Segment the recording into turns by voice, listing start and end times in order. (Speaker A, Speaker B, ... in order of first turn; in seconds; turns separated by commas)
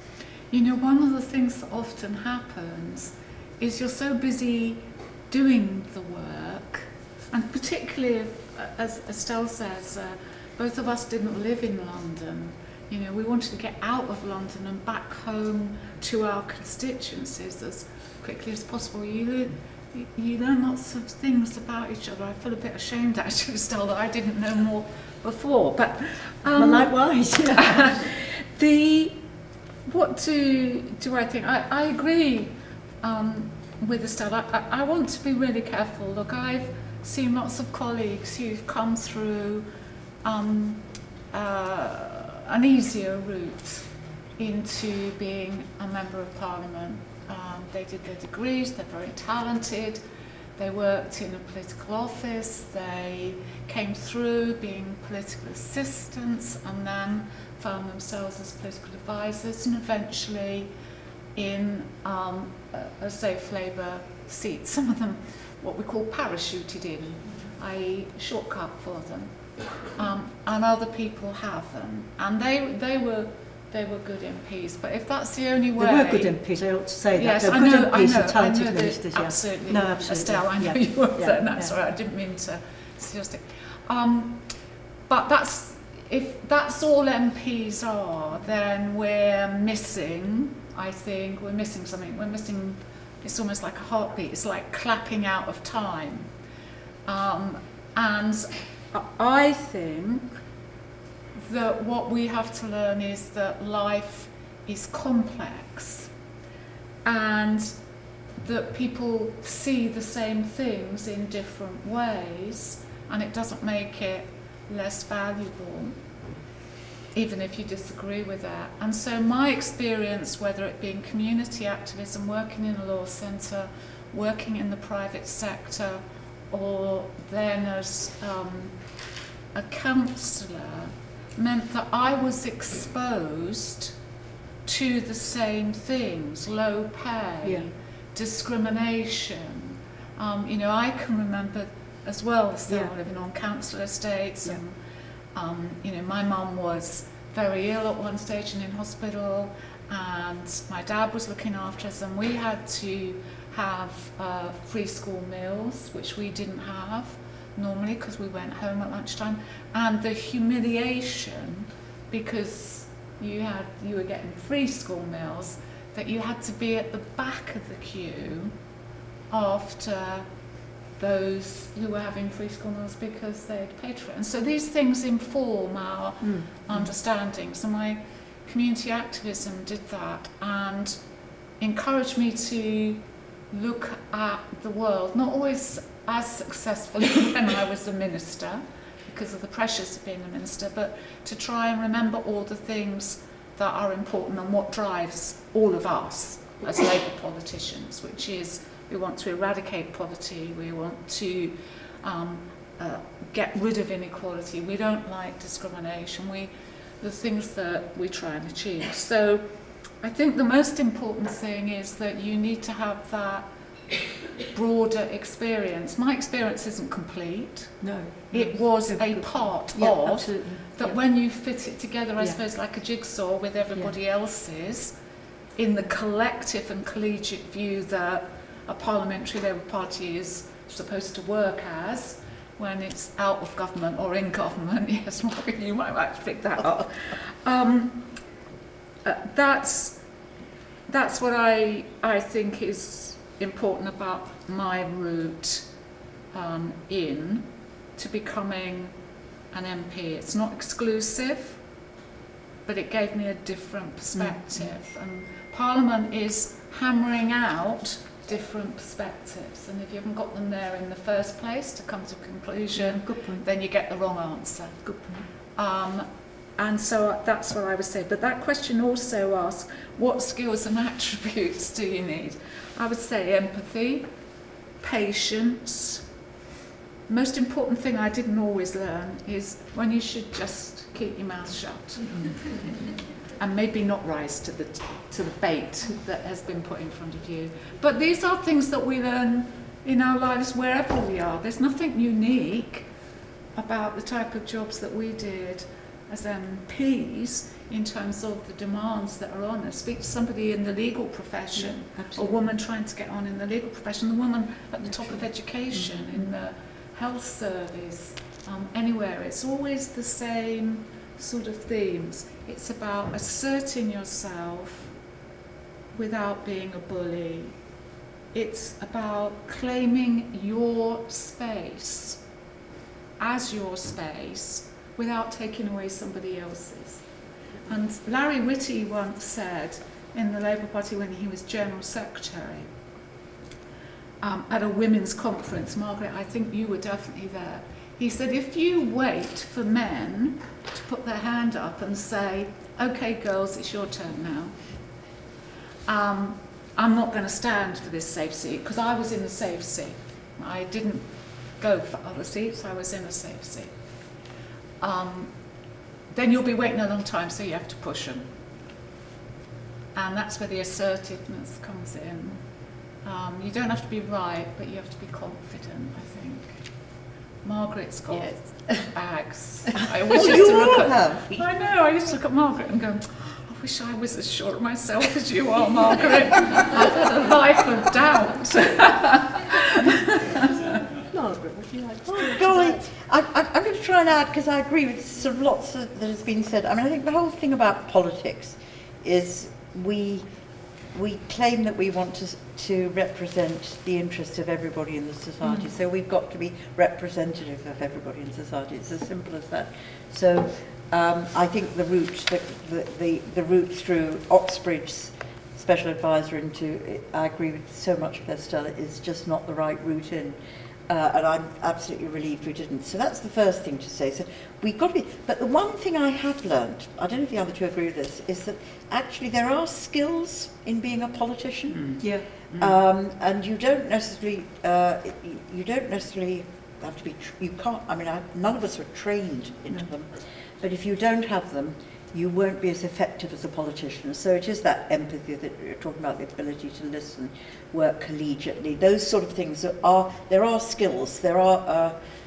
Speaker A: 0.5-26.9, Speaker B: 26.5-28.0, Speaker A: 27.5-29.2, Speaker A: 29.9-39.7, Speaker A: 40.2-43.9, Speaker A: 44.4-50.0, Speaker A: 50.6-60.7, Speaker A: 61.4-69.3, Speaker A: 69.9-76.3, Speaker B: 75.8-81.7, Speaker A: 77.1-84.4, Speaker A: 85.1-96.3, Speaker A: 97.1-100.3, Speaker A: 101.4-106.1, Speaker A: 107.0-107.7, Speaker A: 108.4-115.9, Speaker A: 117.1-128.8, Speaker A: 129.5-133.9, Speaker A: 134.7-144.8, Speaker B: 137.4-137.7, Speaker A: 145.3-168.5, Speaker A: 169.3-170.3, Speaker A: 171.0-181.0, Speaker B: 176.2-176.8, Speaker A: 181.6-209.4, Speaker A: 210.0-213.5, Speaker A: 214.5-224.9, Speaker B: 217.8-221.0, Speaker A: 225.6-238.1, Speaker A: 239.0-240.0, Speaker A: 240.9-245.7, Speaker A: 246.3-248.9, Speaker A: 249.5-251.6, Speaker A: 252.7-264.9, Speaker B: 254.2-254.7, Speaker B: 262.8-263.4, Speaker B: 264.9-265.3, Speaker A: 265.6-274.1, Speaker A: 274.8-276.0, Speaker A: 277.1-282.7, Speaker A: 283.4-292.9, Speaker A: 293.6-314.9, Speaker B: 301.6-302.4, Speaker B: 305.7-306.3, Speaker A: 315.9-317.6, Speaker A: 318.3-322.2, Speaker A: 323.2-327.1, Speaker A: 327.6-332.7, Speaker A: 334.2-344.6, Speaker A: 345.9-353.7, Speaker A: 354.8-355.3, Speaker A: 356.1-358.3, Speaker A: 359.9-362.4, Speaker A: 363.0-366.7, Speaker A: 367.4-380.8, Speaker C: 368.1-368.9, Speaker D: 370.1-371.4, Speaker C: 380.9-382.9, Speaker D: 382.1-390.3, Speaker D: 390.9-410.4, Speaker D: 410.9-422.0, Speaker B: 422.0-422.3, Speaker D: 422.5-442.0